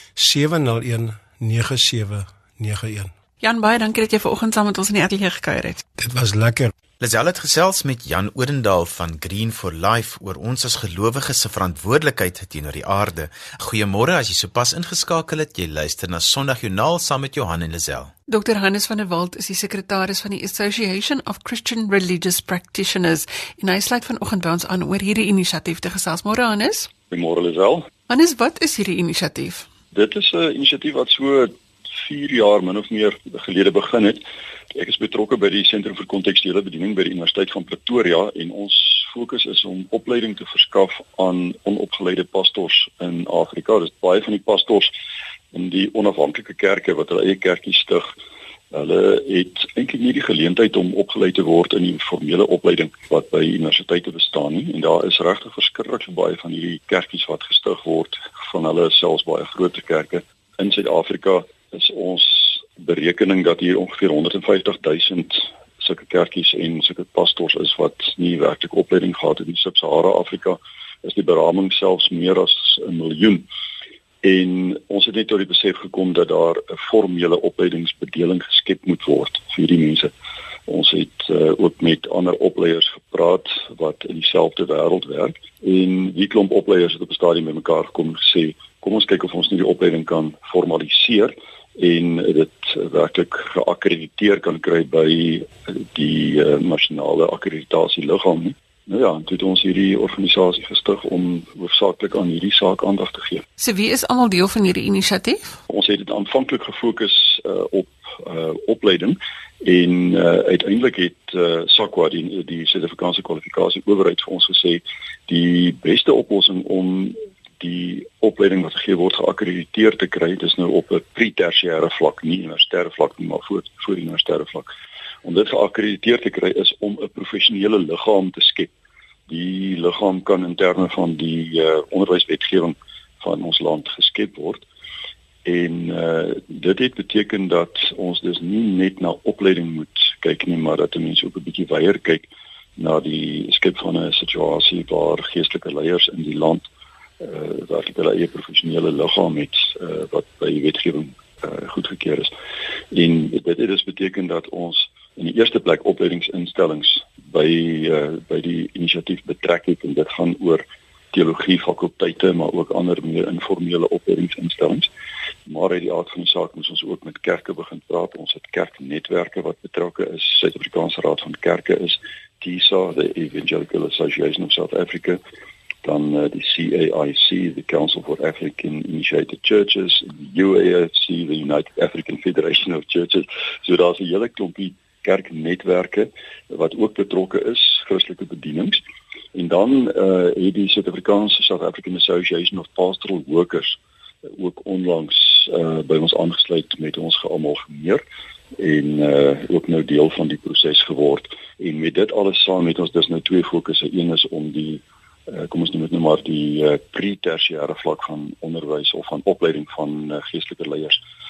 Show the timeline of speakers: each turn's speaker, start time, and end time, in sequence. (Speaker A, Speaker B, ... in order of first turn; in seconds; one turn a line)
Speaker A: 0.1-3.1
Speaker B: 3.4-5.8
Speaker A: 6.0-6.7
Speaker C: 7.0-18.1
Speaker B: 18.3-26.9
Speaker D: 27.1-27.9
Speaker B: 28.1-29.7
Speaker D: 29.9-44.9
Speaker D: 45.5-48.1
Speaker D: 48.7-73.5
Speaker D: 74.2-80.1
Speaker D: 80.7-103.4
Speaker B: 103.6-105.6
Speaker D: 105.7-124.7
Speaker D: 125.2-128.7
Speaker D: 129.3-134.7
Speaker D: 135.4-146.7
Speaker D: 147.2-152.3
Speaker D: 152.9-164.9
Speaker D: 165.4-175.2
Speaker D: 175.8-188.8
Speaker D: 189.3-198.0
Speaker D: 198.6-211.0